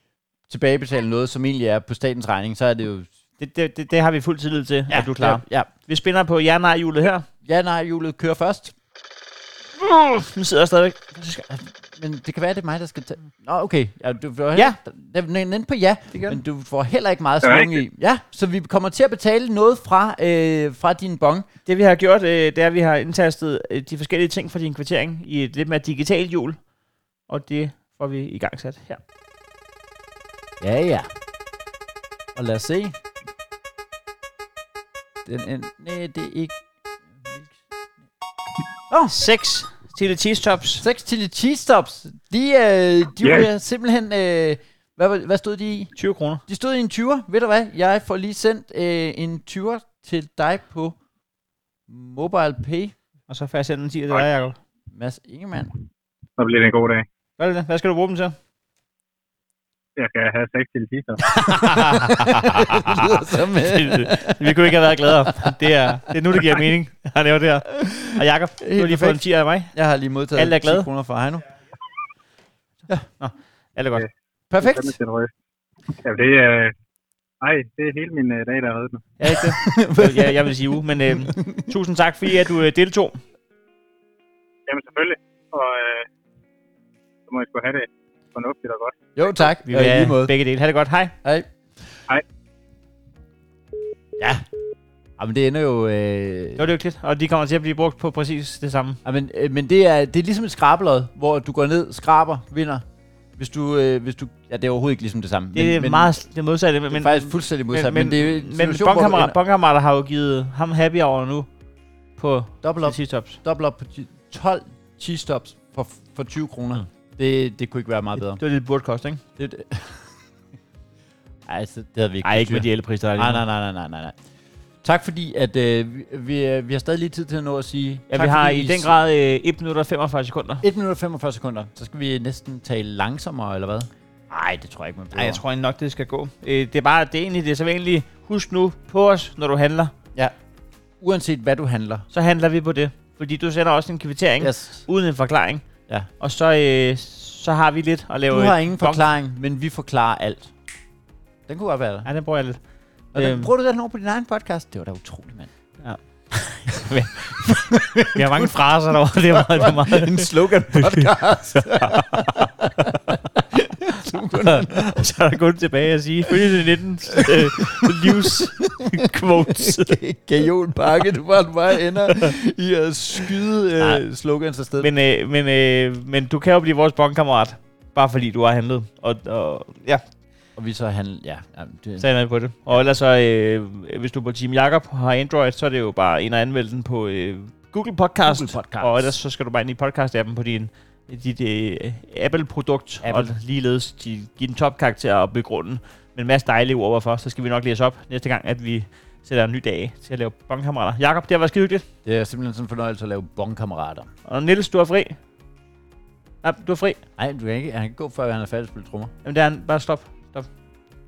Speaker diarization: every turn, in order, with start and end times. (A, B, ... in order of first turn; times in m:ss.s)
0:00.5-0:03.1 A
0:03.4-0:07.3 B
0:04.9-0:05.7 A
0:07.4-0:08.7 A
0:09.8-0:11.4 B
0:11.2-0:21.5 A
0:16.1-0:16.4 B
0:17.4-0:17.8 C
0:21.6-0:26.6 B
0:27.3-0:29.0 B
0:30.6-0:31.1 A
0:32.3-0:32.9 A
0:35.2-0:36.6 A
0:37.2-0:37.5 A
0:39.1-0:40.8 B
0:40.8-0:45.9 A
0:46.0-0:46.4 B
0:46.5-0:51.0 A
0:51.9-0:52.9 A
0:53.3-0:54.6 B
0:54.9-0:55.7 A
0:56.4-0:57.0 C
0:57.4-0:58.4 B
1:00.0-1:01.3 C
1:01.3-1:05.8 A
1:01.5-1:09.7 B
1:07.7-1:11.5 A
1:10.4-1:10.9 B
1:13.2-1:14.0 B
1:14.5-1:14.9 A
1:14.6-1:15.3 C
1:16.0-1:16.7 C
1:17.4-1:19.1 C
1:19.2-1:23.2 B
1:19.3-1:21.6 A
1:24.7-1:26.1 C
1:27.3-1:29.2 C
1:29.2-1:30.3 A
1:29.6-1:31.1 B
1:34.2-1:34.4 A
1:35.2-1:36.6 A
1:36.6-1:39.0 B
1:39.0-1:42.8 A
1:43.4-1:46.1 A
1:45.5-1:51.5 B
1:46.9-1:49.4 A
1:52.2-1:53.4 B
1:52.6-1:58.4 A
1:58.4-1:59.2 B
1:59.4-2:00.2 A
2:01.4-2:04.2 A
2:02.2-2:03.4 B
2:04.8-2:08.9 A
2:08.1-2:10.6 B
2:10.6-2:15.4 A
2:15.1-2:19.9 B
2:21.0-2:22.0 A
2:22.1-2:25.7 B
2:24.4-2:24.9 A
2:26.2-2:29.0 B
2:28.3-2:30.5 A
2:31.5-2:32.1 A
2:32.0-2:32.6 B
2:33.1-2:33.5 B
2:33.1-2:35.5 A
2:35.8-2:42.5 B
2:37.4-2:38.6 A
2:39.1-2:45.0 A
2:44.3-2:50.0 B
2:47.1-2:54.9 A
2:54.8-3:00.0 B
3:00.6-3:02.0 A
3:02.0-3:21.8 B
3:08.2-3:09.1 A
3:13.0-3:13.3 A
3:22.0-3:24.1 A
3:24.2-3:25.2 B
3:26.4-3:27.0 B
3:27.2-3:29.1 A
3:29.2-3:30.5 B